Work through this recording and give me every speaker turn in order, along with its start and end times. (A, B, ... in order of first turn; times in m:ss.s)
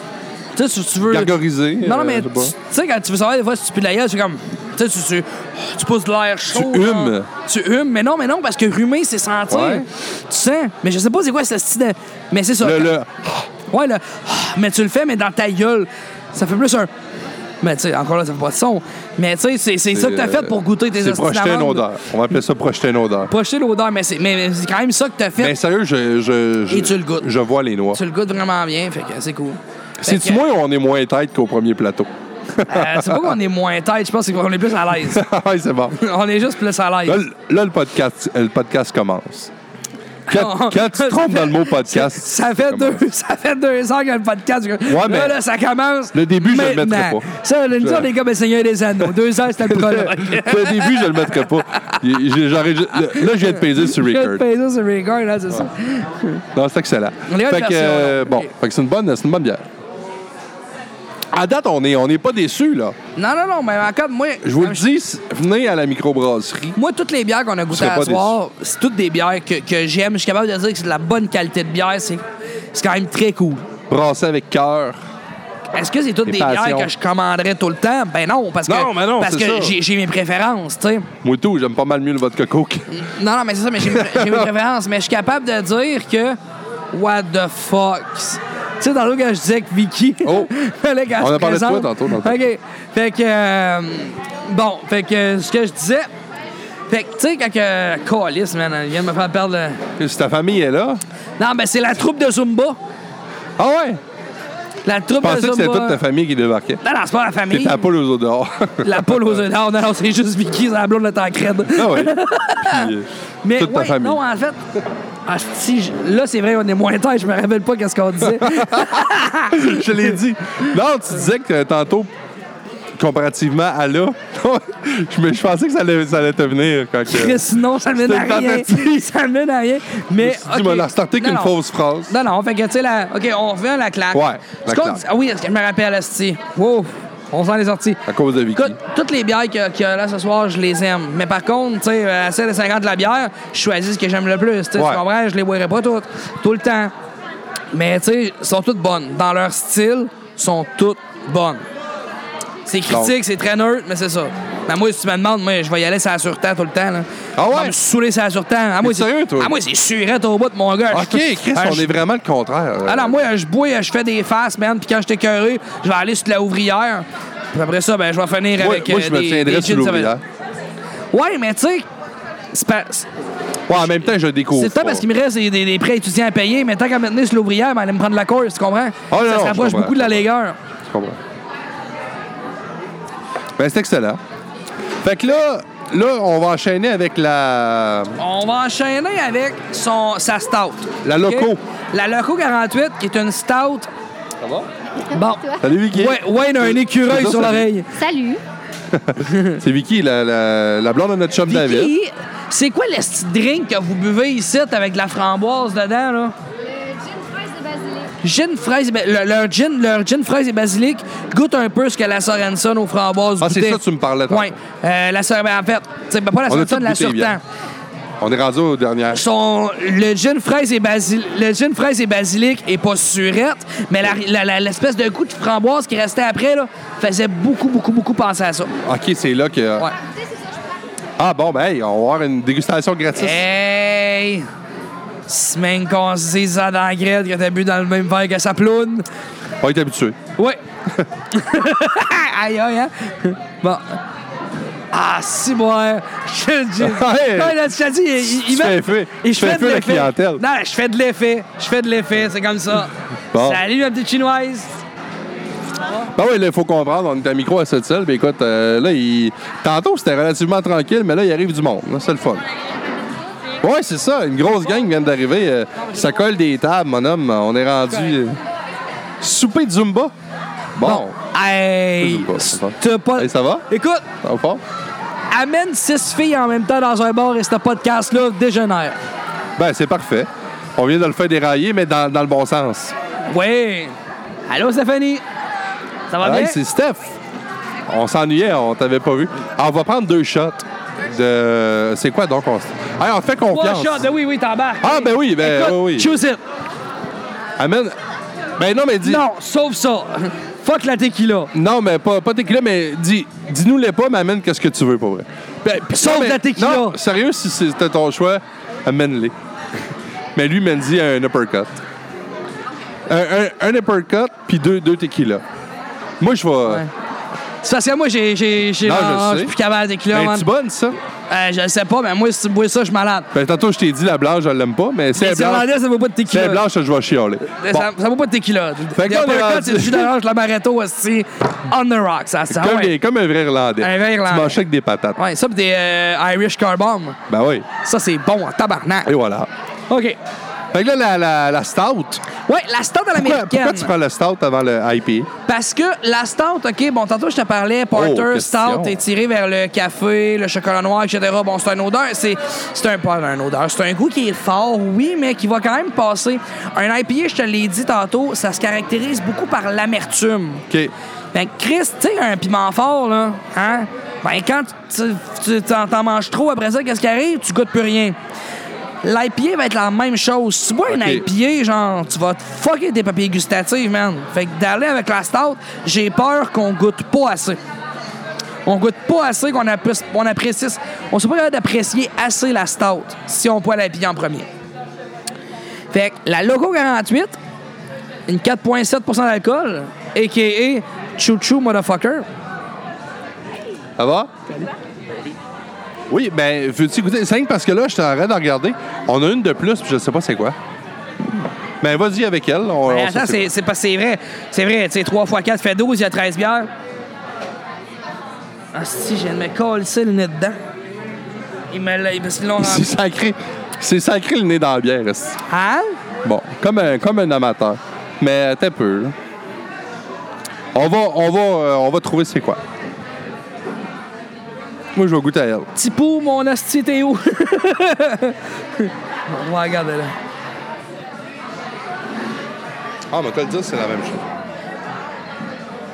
0:00.6-0:12.9 A
0:01.0-0:02.5 B
0:06.5-0:07.3 B
0:09.5-0:09.9 B
0:12.6-0:13.5 B
0:13.7-0:16.9 A
0:17.6-0:21.9 A
0:19.9-0:23.3 B
0:23.3-0:25.6 A
0:25.4-0:28.0 B
0:26.7-0:27.3 A
0:27.9-0:30.4 A
0:30.0-0:33.3 B
0:32.7-0:35.2 A
0:35.1-0:36.0 B
0:36.0-0:37.2 A
0:37.1-0:39.5 B
0:40.3-0:43.0 B
0:40.3-0:51.5 A
0:44.9-0:45.4 B
0:46.1-0:48.1 B
0:49.6-0:54.4 B
0:53.1-0:56.4 A
0:56.5-0:59.6 B
0:57.3-0:58.5 A
1:01.3-1:03.0 B
1:03.2-1:04.8 A
1:04.4-1:06.8 B
1:06.8-1:13.7 A
1:07.7-1:08.4 B
1:13.9-1:15.0 B
1:15.7-1:21.1 A
1:16.3-1:16.9 B
1:18.7-1:19.8 B
1:21.2-1:22.9 B
1:22.9-1:26.4 A
1:23.8-1:24.5 B
1:26.9-1:36.1 A
1:30.2-1:30.5 B
1:31.2-1:32.4 B
1:36.9-1:39.8 A
1:40.0-1:41.0 B
1:41.4-1:42.8 A
1:43.6-1:44.0 B
1:44.8-1:46.0 A
1:45.2-1:46.8 B
1:46.8-1:47.8 A
1:47.5-1:49.3 B
1:48.8-1:52.9 A
1:51.7-1:54.2 B
1:53.4-1:54.6 A
1:55.3-2:00.1 A
1:58.3-2:02.1 B
2:03.0-2:09.0 B
2:07.1-2:11.6 A
2:10.2-2:12.2 B
2:12.1-2:18.0 A
2:14.1-2:15.0 B
2:18.1-2:18.8 B
2:18.6-2:26.9 A
2:24.8-2:25.0 B
2:27.7-2:31.6 A
2:32.7-2:42.0 A
2:32.9-2:33.1 B
2:37.4-2:37.8 B
2:38.8-2:39.5 B
2:40.9-2:43.2 B
2:42.9-2:50.2 A
2:48.6-2:50.2 B
2:51.1-2:51.9 A
2:52.5-2:53.1 A
2:53.7-2:55.0 B
2:54.5-3:00.6 A
2:59.1-3:00.2 B
3:00.9-3:01.2 B
3:03.6-3:04.2 B
3:05.0-3:08.2 B
3:08.2-3:13.9 A
3:11.0-3:11.6 B
3:14.4-3:14.7 B
3:15.1-3:18.0 A
3:15.2-3:15.6 C
3:15.6-3:17.7 B
3:18.0-3:18.4 C
3:18.9-3:21.9 B
3:19.2-3:19.6 A
3:21.5-3:26.4 A
3:26.7-3:28.1 C
3:28.2-3:37.4 A
3:33.4-3:34.6 B
3:36.5-3:37.4 B
3:38.2-3:39.2 B
3:39.1-3:48.7 A
3:48.8-3:49.9 B
3:51.2-3:53.4 B
3:53.2-3:54.5 A
3:55.3-3:59.1 A
3:59.6-4:00.2 B
4:01.3-4:04.0 A
4:04.9-4:14.7 A
4:06.8-4:07.6 B
4:08.2-4:10.4 B
4:13.3-4:13.6 B
4:16.1-4:22.4 B
4:23.6-4:28.4 B
4:29.2-4:30.1 B
4:30.8-4:31.2 B
4:30.8-4:34.1 A
4:32.0-4:33.7 B
4:34.2-4:34.6 B
4:35.3-4:39.0 A
4:39.6-4:42.9 B
4:43.3-4:44.0 A
4:44.5-4:45.2 A
4:46.1-4:46.6 A
4:46.2-4:47.2 B
4:47.9-4:54.1 B
4:53.5-4:56.4 A
4:54.8-4:56.2 B
4:57.6-4:58.0 B
4:58.6-4:59.2 B
4:59.0-5:01.5 A
5:01.5-5:09.3 B
5:05.9-5:07.0 A
5:10.4-5:11.8 B
5:13.1-5:15.4 B
5:16.2-5:16.8 B
5:17.6-5:20.5 A
5:18.8-5:19.5 B
5:20.1-5:21.0 B
5:21.3-5:23.3 A
5:23.3-5:25.7 B
5:25.2-5:26.6 A
5:26.3-5:27.9 B
5:27.5-5:33.0 A
5:29.0-5:30.1 B
5:32.5-5:35.2 B
5:33.8-5:34.6 A
5:35.2-5:37.2 A
5:37.3-5:37.7 B
5:37.8-5:39.1 A
5:39.1-5:39.5 B
5:39.9-5:40.2 A
5:40.7-5:42.2 B
5:42.5-5:43.9 A
5:43.2-5:45.3 B
5:45.5-6:00.7 A
5:47.9-5:49.0 B
6:01.3-6:08.2 A
6:09.0-6:17.6 A
6:10.9-6:11.3 B
6:18.7-6:24.5 A
6:25.9-6:27.4 A
6:28.3-6:32.3 A
6:34.0-6:34.3 B
6:36.1-6:40.6 B
6:41.8-6:43.5 B
6:42.9-6:46.7 A
6:48.7-6:50.6 A
6:51.7-6:52.9 A
6:52.6-6:55.4 B
6:55.5-6:56.0 A
6:56.2-6:59.2 B
7:00.8-7:02.6 B
7:05.0-7:05.7 B
7:05.8-7:10.1 A
7:13.1-7:14.2 B